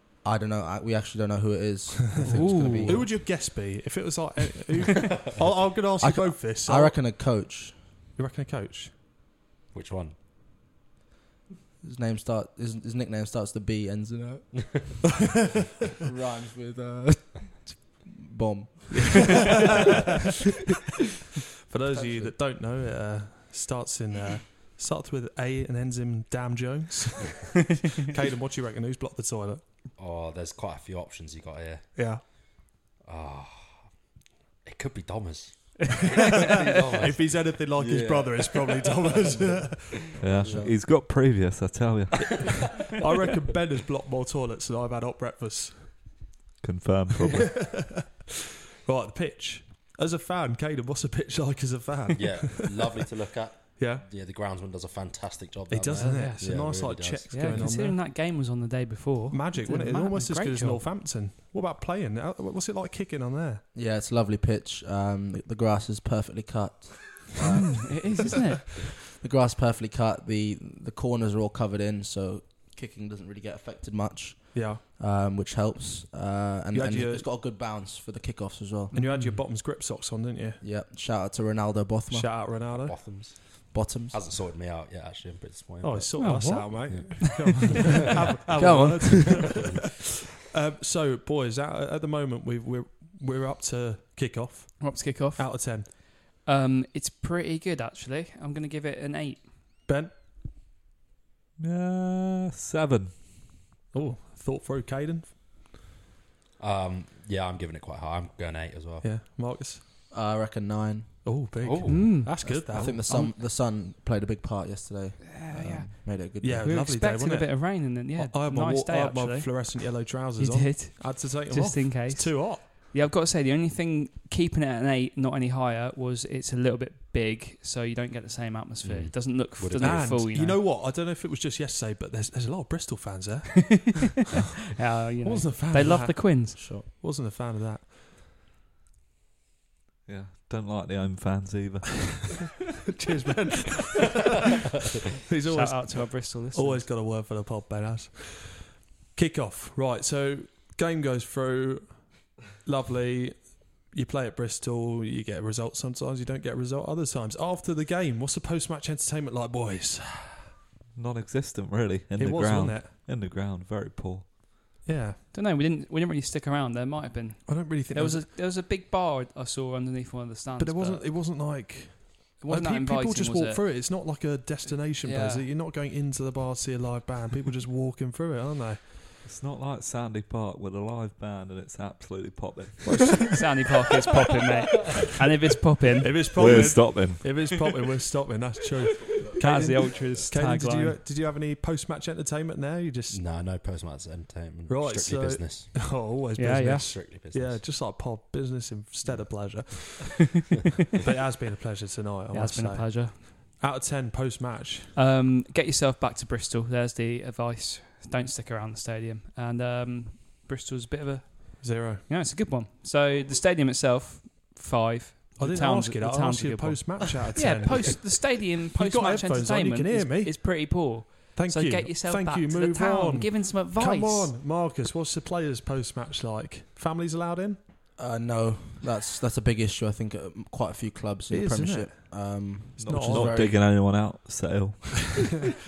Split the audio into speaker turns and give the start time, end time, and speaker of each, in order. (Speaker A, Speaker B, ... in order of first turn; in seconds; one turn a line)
Speaker A: 0.2-3.2
Speaker B: 2.1-7.0
Speaker C: 2.2-3.1
Speaker A: 6.0-7.8
Speaker B: 8.2-8.9
Speaker D: 9.7-10.2
Speaker A: 11.8-14.5
Speaker D: 14.6-15.1
Speaker A: 16.0-19.9
Speaker B: 21.7-29.6
Speaker A: 21.9-22.4
Speaker D: 30.0-32.4
Speaker B: 31.9-32.2
Speaker D: 33.0-33.9
Speaker D: 34.6-40.7
Speaker B: 36.8-40.1
Speaker A: 40.2-40.7
Speaker E: 40.2-42.8
Speaker B: 42.9-46.1
Speaker E: 46.6-47.7
Speaker B: 47.3-48.0
Speaker B: 48.8-53.0
Speaker D: 52.1-57.8
Speaker B: 53.8-54.1
Speaker B: 55.7-58.0
Speaker C: 56.0-56.5
Speaker C: 57.3-60.9
Speaker B: 59.3-63.6
Speaker A: 63.7-68.4
Speaker C: 67.5-68.6
Speaker A: 69.1-79.0
Speaker B: 74.5-74.8
Speaker B: 76.7-77.3
Speaker C: 78.9-79.4
Speaker B: 78.9-80.6
Speaker A: 80.6-82.5
Speaker B: 82.1-83.4
Speaker D: 82.6-88.0
Speaker A: 83.5-84.2
Speaker B: 85.8-89.9
Speaker C: 86.2-88.1
Speaker A: 88.6-89.6
Speaker D: 89.4-89.8
Speaker B: 90.5-95.9
Speaker C: 94.8-99.5
Speaker B: 99.9-100.1
Speaker E: 101.6-103.2
Speaker B: 103.9-105.3
Speaker D: 106.6-109.1
Speaker B: 109.0-109.8
Speaker A: 110.1-111.4
Speaker B: 111.2-113.1
Speaker D: 111.6-112.3
Speaker C: 111.9-113.3
Speaker A: 112.3-116.8
Speaker C: 115.2-130.6
Speaker B: 116.4-122.7
Speaker D: 128.8-130.2
Speaker B: 129.8-133.9
Speaker C: 134.8-136.6
Speaker B: 135.2-137.9
Speaker A: 136.6-136.9
Speaker E: 140.1-142.5
Speaker B: 142.9-144.2
Speaker B: 145.3-160.5
Speaker C: 145.4-146.9
Speaker E: 160.9-164.3
Speaker B: 162.2-162.9
Speaker B: 164.8-165.2
Speaker C: 165.3-171.1
Speaker B: 167.5-168.3
Speaker B: 170.6-178.9
Speaker C: 172.4-173.6
Speaker C: 175.0-175.5
Speaker E: 179.2-183.3
Speaker B: 182.9-183.3
Speaker C: 183.2-186.9
Speaker B: 186.0-193.2
Speaker E: 186.3-187.4
Speaker C: 189.4-191.0
Speaker D: 193.1-196.0
Speaker B: 194.7-200.4
Speaker C: 196.4-197.0
Speaker D: 196.7-197.6
Speaker B: 201.0-204.9
Speaker C: 202.3-203.2
Speaker C: 204.9-224.3
Speaker B: 211.6-212.1
Speaker B: 215.4-220.8
Speaker B: 221.3-227.6
Speaker A: 228.0-233.6
Speaker B: 231.3-232.0
Speaker B: 232.8-233.5
Speaker E: 232.8-235.5